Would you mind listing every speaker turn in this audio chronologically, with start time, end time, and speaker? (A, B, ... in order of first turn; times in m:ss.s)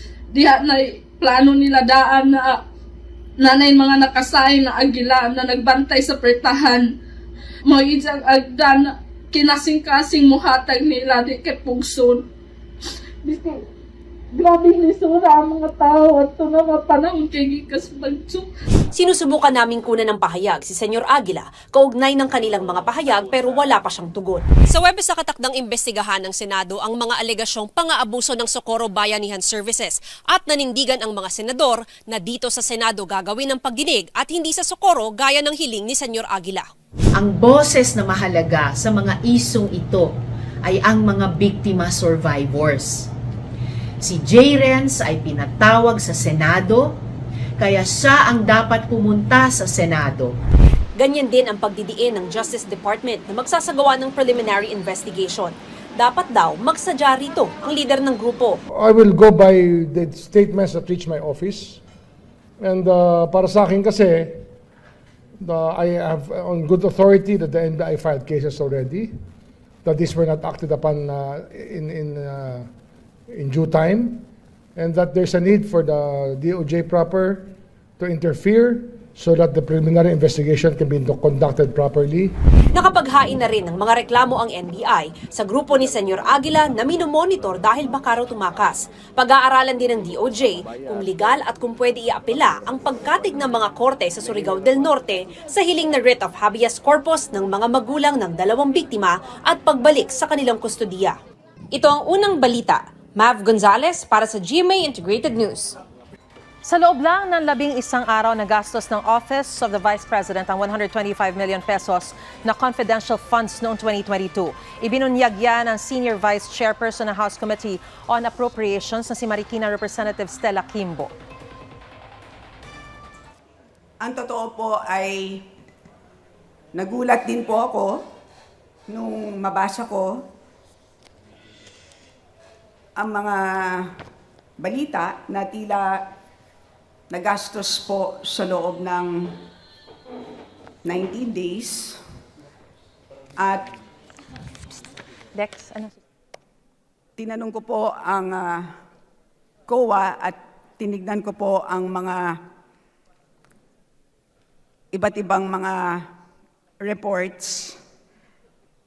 0:00.3-0:02.6 A
0:03.4-0:06.8 A
0:07.7-0:12.2 A
0:13.2-0:13.6 A
0:14.3-0:18.5 A
0:18.9-0:36.7 B
0:37.2-0:40.1 C
0:40.6-0:43.1 C
0:44.0-0:47.0 C
0:47.6-0:50.3 C
0:51.0-0:58.6 B
0:58.7-1:01.8 D
1:02.6-1:04.4 D
1:05.4-1:09.1 D
1:09.8-1:12.7 D
1:13.3-1:22.3 D
1:22.7-1:41.2 B
1:41.7-1:45.8 B
1:46.6-2:01.1 E
2:04.0-2:05.4 F
2:06.7-2:08.0 F
2:08.9-2:10.2 F
2:13.0-2:13.9 F
2:14.6-2:16.0 F
2:17.1-2:19.3 F
2:20.8-2:22.0 F
2:23.4-2:23.7 F
2:25.4-2:26.0 E
2:27.2-2:28.7 F
2:29.7-2:32.4 F
2:34.9-2:36.0 F
2:36.8-2:37.8 F